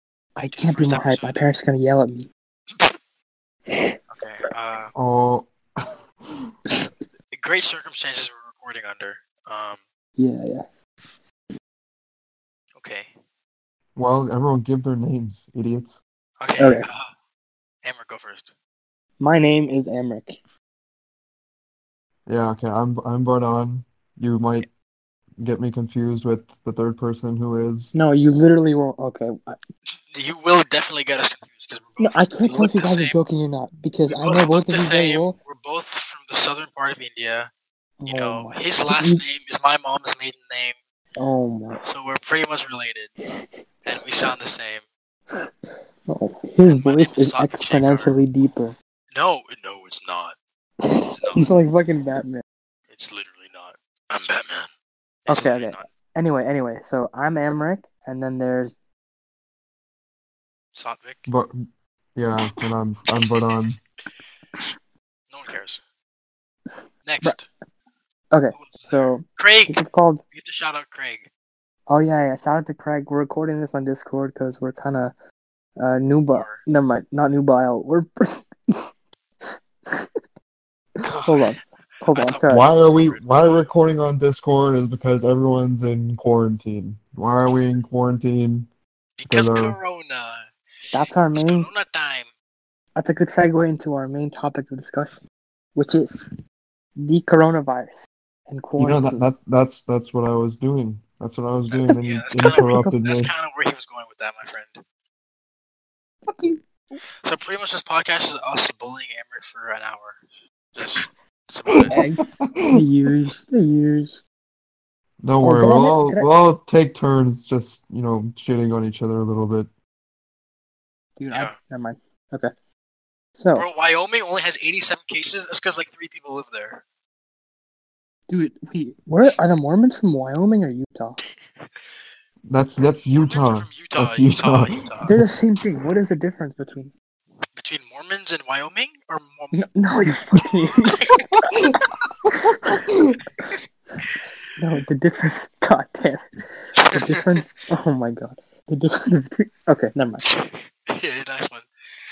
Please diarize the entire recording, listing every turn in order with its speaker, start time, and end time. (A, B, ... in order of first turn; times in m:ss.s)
0:00.4-0:02.3 A
0:00.5-0:01.6 B
0:02.7-0:03.0 B
0:03.7-0:04.0 A
0:04.1-0:04.9 B
0:05.0-0:06.5 C
0:07.3-0:09.8 B
0:10.2-0:10.6 A
0:12.8-0:13.1 B
0:14.0-0:16.0 C
0:16.4-0:17.1 B
0:16.6-0:16.9 A
0:17.8-0:18.5 B
0:19.2-0:20.4 A
0:22.3-0:24.7 C
0:25.4-0:27.9 C
0:27.9-0:29.6 A
0:30.1-0:33.2 B
0:32.0-0:35.4 A
0:34.1-0:37.5 B
0:38.0-0:39.2 A
0:38.0-0:40.8 B
0:41.2-0:41.8 A
0:41.8-0:43.1 B
0:43.4-0:44.0 A
0:43.8-0:44.8 B
0:46.1-0:48.8 A
0:46.6-0:48.2 B
0:49.1-0:50.4 B
0:50.8-0:52.4 A
0:51.1-0:51.6 B
0:52.9-0:54.7 B
0:55.3-0:55.9 B
0:55.3-0:58.7 A
1:00.7-1:01.3 B
1:01.3-1:01.5 C
1:02.2-1:03.8 C
1:03.2-1:03.8 B
1:05.3-1:05.8 B
1:06.7-1:07.4 A
1:07.1-1:07.5 B
1:08.3-1:10.2 A
1:08.6-1:11.3 B
1:11.9-1:15.1 A
1:15.8-1:18.9 A
1:16.3-1:16.6 B
1:19.4-1:20.1 A
1:21.0-1:21.3 C
1:21.1-1:23.7 B
1:21.2-1:22.7 A
1:22.5-1:28.7 C
1:29.2-1:32.3 B
1:29.3-1:29.8 C
1:30.9-1:31.7 A
1:33.0-1:35.2 A
1:35.8-1:36.3 A
1:37.0-1:39.3 A
1:38.8-1:43.3 C
1:41.7-1:44.8 B
1:42.5-1:43.0 A
1:46.3-1:47.0 A
1:47.2-1:50.2 B
1:50.8-1:52.0 B
1:51.8-1:52.8 C
1:51.9-1:54.2 A
1:55.2-1:59.7 C
1:55.4-1:56.3 A
2:01.2-2:02.5 A
2:03.4-2:03.7 A
2:03.6-2:06.8 B
2:08.3-2:11.2 A
2:11.2-2:11.9 B
2:12.5-2:15.2 C
2:13.1-2:15.2 B
2:15.1-2:16.9 A
2:17.6-2:19.6 B
2:19.5-2:21.1 A
2:20.8-2:21.3 B
2:22.3-2:23.2 C
2:22.3-2:22.8 A
2:24.6-2:26.2 A
2:26.8-2:27.5 B
2:26.9-2:30.2 A
2:30.2-2:31.7 B